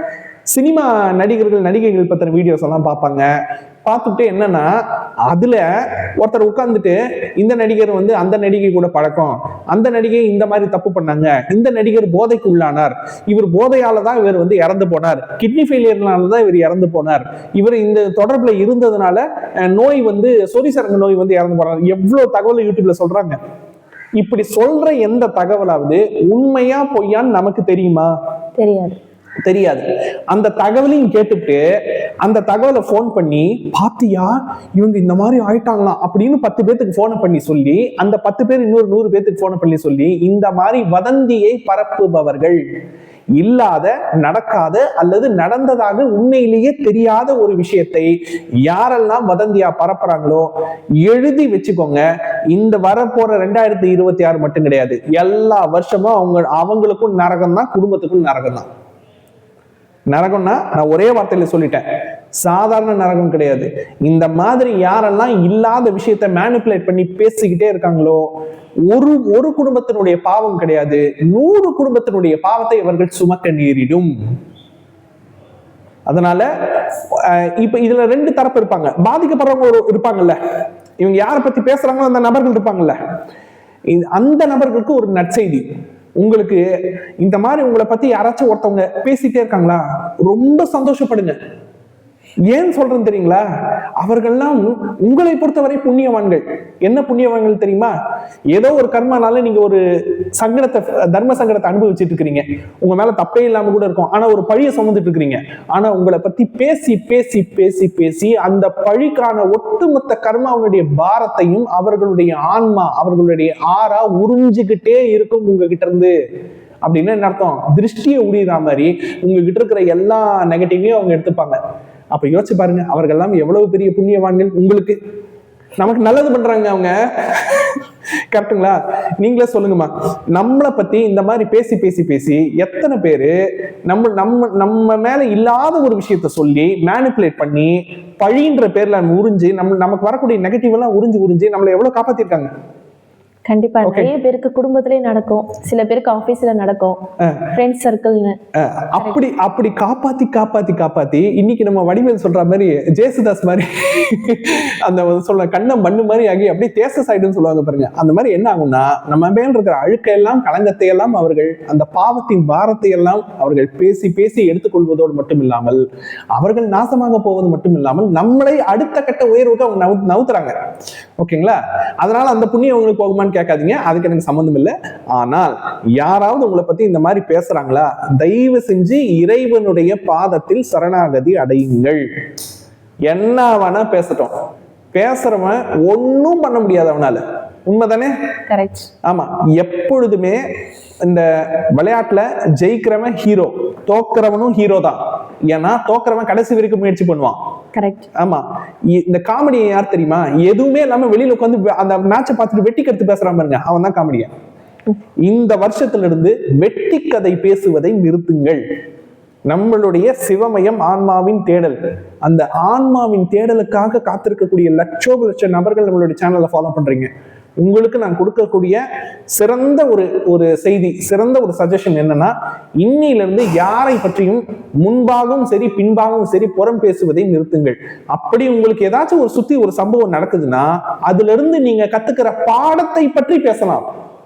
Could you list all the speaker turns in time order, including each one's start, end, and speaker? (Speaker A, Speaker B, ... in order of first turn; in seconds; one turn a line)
Speaker A: 0.5-3.3
Speaker A: 3.9-4.7
Speaker A: 5.3-23.4
Speaker A: 24.2-28.1
Speaker B: 28.6-29.0
Speaker A: 29.4-31.6
Speaker A: 32.2-42.6
Speaker A: 43.4-48.1
Speaker A: 48.6-50.5
Speaker A: 51.0-58.7
Speaker A: 60.1-61.9
Speaker A: 62.4-68.2
Speaker A: 68.9-74.1
Speaker A: 76.1-76.5
Speaker A: 77.1-80.4
Speaker A: 81.0-83.0
Speaker A: 83.9-85.7
Speaker A: 86.2-86.6
Speaker A: 87.2-91.4
Speaker A: 92.5-93.4
Speaker A: 94.0-97.9
Speaker A: 98.5-99.8
Speaker A: 100.4-116.1
Speaker A: 116.8-121.6
Speaker A: 122.1-125.0
Speaker A: 125.8-133.3
Speaker A: 133.9-142.5
Speaker B: 143.5-147.0
Speaker A: 143.8-144.1
Speaker B: 147.5-148.4
Speaker A: 148.6-165.8
Speaker A: 166.3-170.6
Speaker A: 171.2-182.0
Speaker A: 183.1-184.3
Speaker A: 184.9-188.1
Speaker B: 188.5-188.9
Speaker A: 189.1-190.4
Speaker A: 191.1-197.4
Speaker B: 197.7-198.1
Speaker A: 198.2-204.3
Speaker A: 205.2-208.6
Speaker A: 209.5-217.1
Speaker A: 217.6-218.8
Speaker A: 219.3-233.9